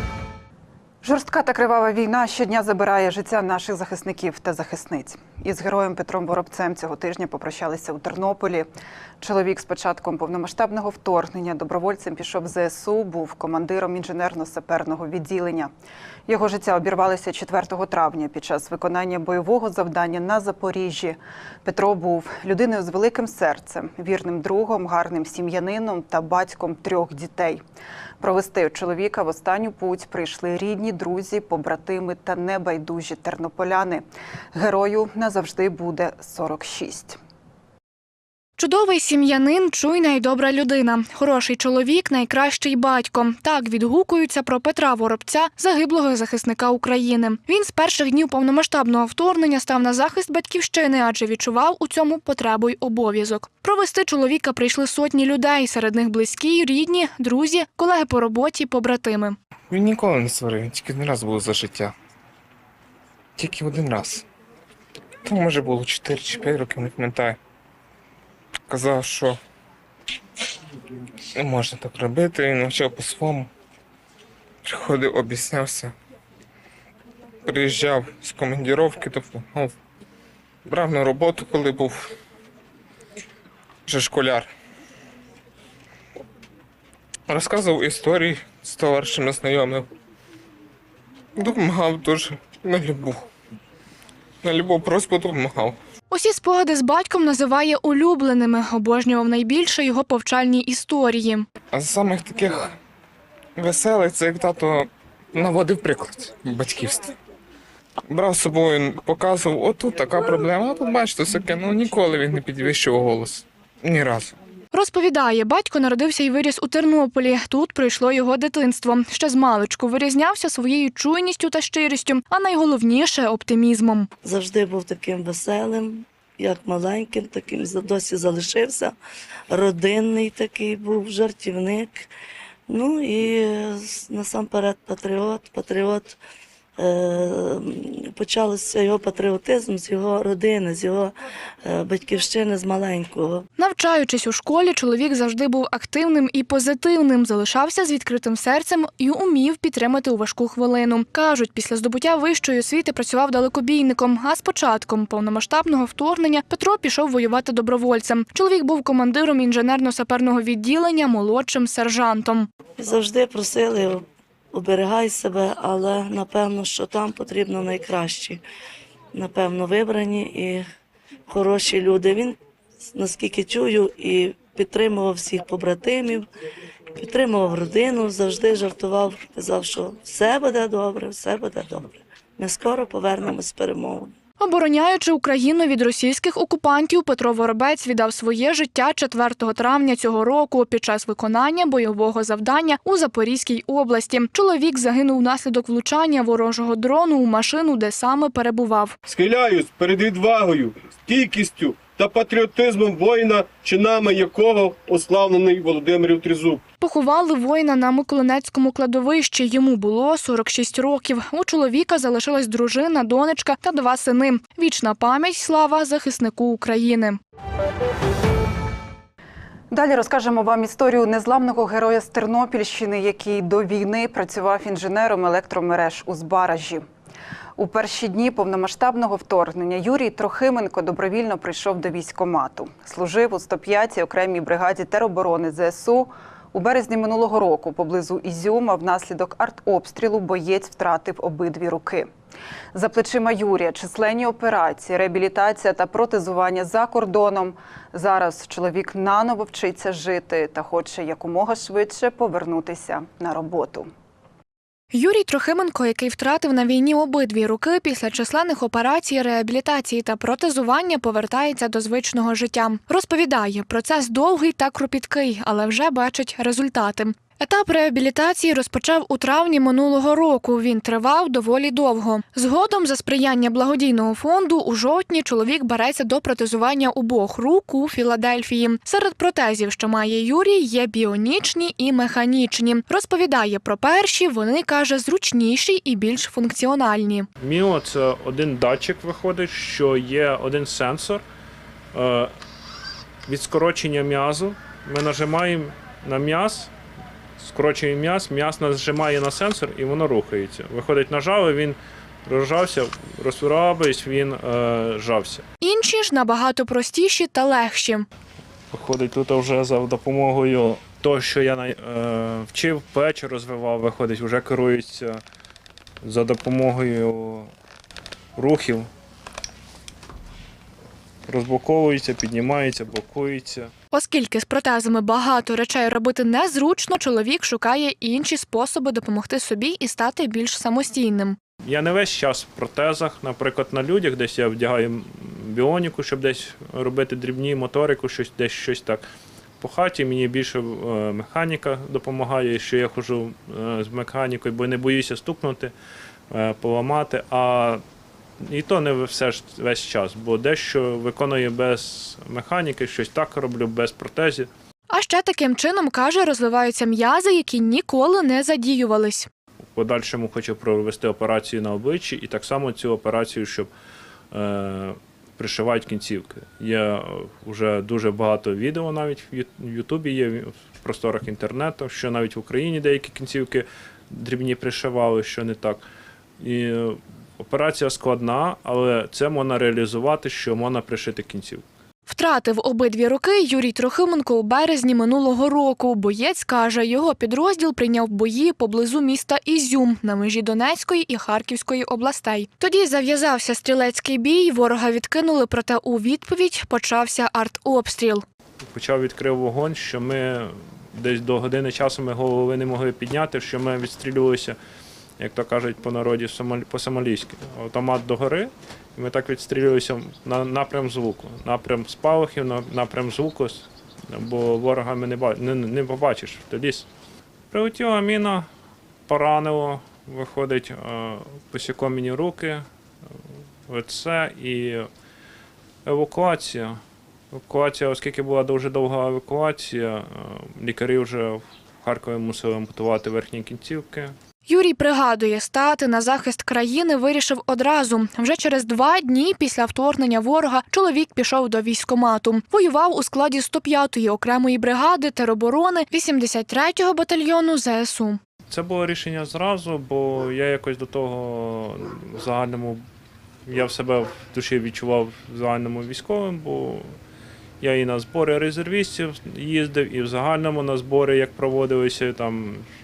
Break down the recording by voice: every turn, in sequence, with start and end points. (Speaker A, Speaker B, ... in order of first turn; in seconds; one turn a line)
Speaker A: 1.0-8.7
Speaker A: 9.2-15.7
Speaker A: 16.3-27.6
Speaker A: 28.2-37.2
Speaker B: 38.6-59.4
Speaker C: 59.7-61.9
Speaker C: 63.4-64.2
Speaker C: 65.2-67.4
Speaker C: 68.7-69.4
Speaker C: 71.3-73.5
Speaker C: 74.6-75.9
Speaker C: 77.5-79.7
Speaker C: 80.7-82.1
Speaker C: 83.9-84.5
Speaker C: 87.3-89.9
Speaker C: 91.3-93.2
Speaker C: 94.4-95.8
Speaker B: 96.1-101.5
Speaker C: 101.7-102.7
Speaker C: 103.6-107.1
Speaker C: 108.1-114.3
Speaker B: 114.7-124.1
Speaker D: 124.2-128.9
Speaker D: 129.5-132.0
Speaker D: 132.7-136.2
Speaker D: 136.8-141.1
Speaker D: 141.6-143.4
Speaker B: 143.6-162.5
Speaker D: 162.8-168.4
Speaker D: 169.1-170.6
Speaker D: 171.3-172.4
Speaker D: 172.9-176.3
Speaker D: 176.9-184.1
Speaker B: 184.4-198.9
Speaker E: 199.1-206.6
Speaker B: 206.8-217.2
Speaker A: 219.7-226.8
Speaker A: 227.6-242.1
Speaker A: 242.7-253.9
Speaker B: 254.9-287.3
Speaker F: 287.4-291.2
Speaker F: 291.9-292.4
Speaker F: 293.3-296.7
Speaker F: 297.4-305.4
Speaker B: 305.6-308.1
Speaker F: 308.7-315.2
Speaker F: 316.0-317.5
Speaker F: 318.4-318.9
Speaker F: 321.3-323.7
Speaker B: 323.9-331.4
Speaker F: 331.6-339.0
Speaker F: 339.6-345.7
Speaker F: 346.3-347.8
Speaker F: 348.4-354.5
Speaker B: 354.9-359.3
Speaker F: 359.7-363.7
Speaker F: 364.3-375.8
Speaker F: 376.4-381.6
Speaker B: 382.1-398.2
Speaker F: 398.7-404.6
Speaker F: 405.2-416.9
Speaker F: 417.5-418.5
Speaker F: 419.1-422.6
Speaker F: 423.7-424.9
Speaker F: 425.8-426.8
Speaker F: 427.3-434.1
Speaker B: 434.5-448.2
Speaker F: 448.5-452.8
Speaker F: 453.4-456.9
Speaker F: 457.6-462.6